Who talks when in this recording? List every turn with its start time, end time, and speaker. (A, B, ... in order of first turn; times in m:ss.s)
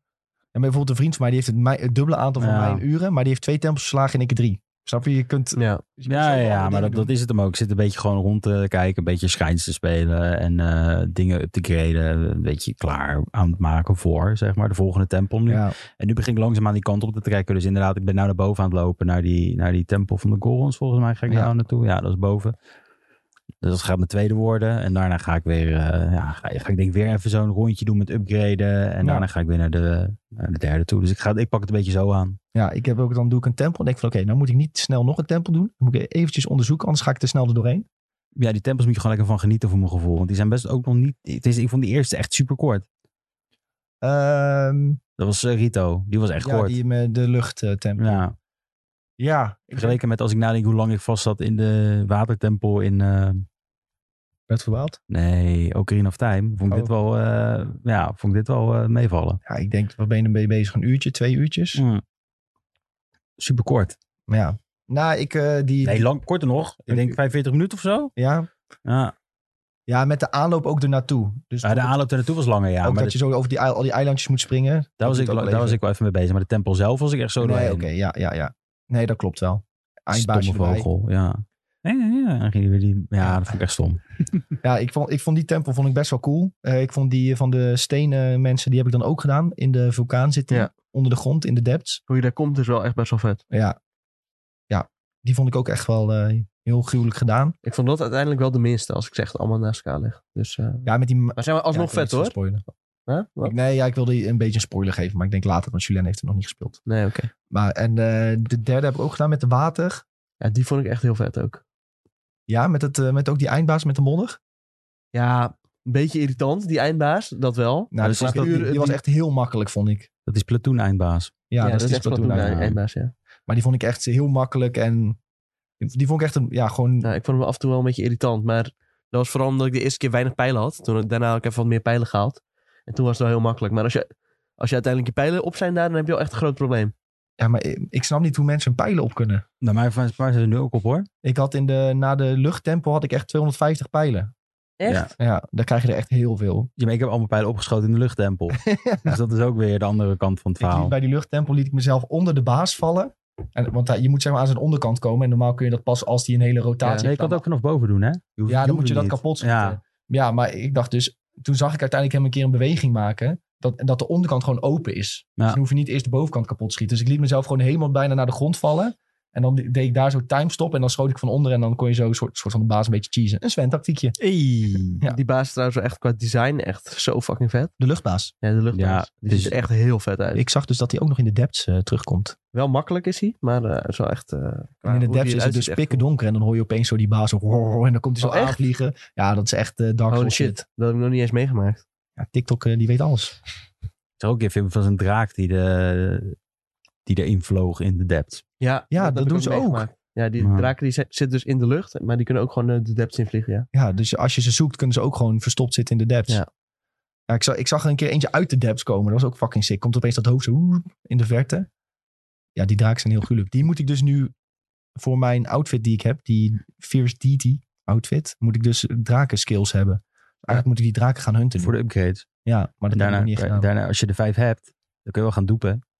0:00.5-0:07.1 A
0:02.4-0:02.8 B
0:05.6-0:05.8 C
0:06.1-0:22.5 B
0:15.5-0:15.7 A
0:23.6-0:32.4 B
0:29.0-0:29.3 A
0:32.5-0:37.8 A
0:38.4-0:42.8 B
0:44.0-0:45.0 A
0:45.2-0:46.8 B
0:46.4-0:48.2 A
0:48.0-0:48.3 B
0:49.2-0:50.0 A
0:49.7-0:53.4 B
0:54.5-0:55.0 A
0:55.1-0:59.4 B
0:59.4-1:01.8 A
1:01.7-1:02.0 B
1:03.4-1:04.0 B
1:04.3-1:06.1 A
1:05.8-1:08.1 B
1:06.9-1:07.2 A
1:08.2-1:08.5 A
1:08.8-1:09.1 B
1:09.9-1:12.0 A
1:11.6-1:13.2 B
1:12.8-1:15.8 A
1:15.0-1:17.9 B
1:17.4-1:20.9 A
1:20.1-1:24.0 B
1:23.2-1:23.5 A
1:24.6-1:32.0 A
1:32.1-1:33.4 C
1:33.5-1:33.8 A
1:34.7-1:37.5 A
1:37.6-1:42.4 C
1:40.8-1:42.6 A
1:43.1-1:43.5 C
1:43.4-1:46.8 A
1:46.9-1:47.3 C
1:47.5-1:50.0 A
1:50.4-1:51.6 C
1:52.5-1:54.4 A
1:55.1-1:59.0 C
1:57.9-2:00.1 A
1:58.0-1:58.6 B
2:00.2-2:01.3 B
2:01.5-2:02.5 A
2:01.6-2:03.1 C
2:02.3-2:02.8 B
2:03.5-2:05.2 A
2:05.8-2:07.1 A
2:07.0-2:16.9 C
2:17.4-2:19.4 A
2:19.6-2:21.1 B
2:21.2-2:24.3 A
2:24.8-2:25.1 C
2:24.8-2:25.1 B
2:25.2-2:26.7 A
2:26.8-2:30.9 B
2:28.6-2:29.2 A
2:30.6-2:37.4 A
2:36.8-2:37.1 C
2:37.0-2:39.8 B
2:38.5-2:54.2 A
2:54.2-2:55.0 B
2:55.1-2:57.7 C
2:57.8-2:58.3 A
2:58.4-3:00.4 C
2:58.7-2:59.6 B
3:00.3-3:02.4 A
3:02.5-3:06.0 C
3:04.8-3:10.6 A
3:08.2-3:08.6 C
3:10.1-3:11.8 C
3:12.2-3:13.4 A
3:14.2-3:16.4 B
3:17.0-3:18.4 B
3:18.6-3:23.7 C
3:18.9-3:19.8 A
3:20.4-3:20.7 B
3:23.7-3:26.4 A
3:27.3-3:31.7 A
3:32.6-3:34.3 A
3:35.0-3:41.7 A
3:41.6-3:42.2 B
3:42.4-3:43.7 A
3:42.9-3:45.8 B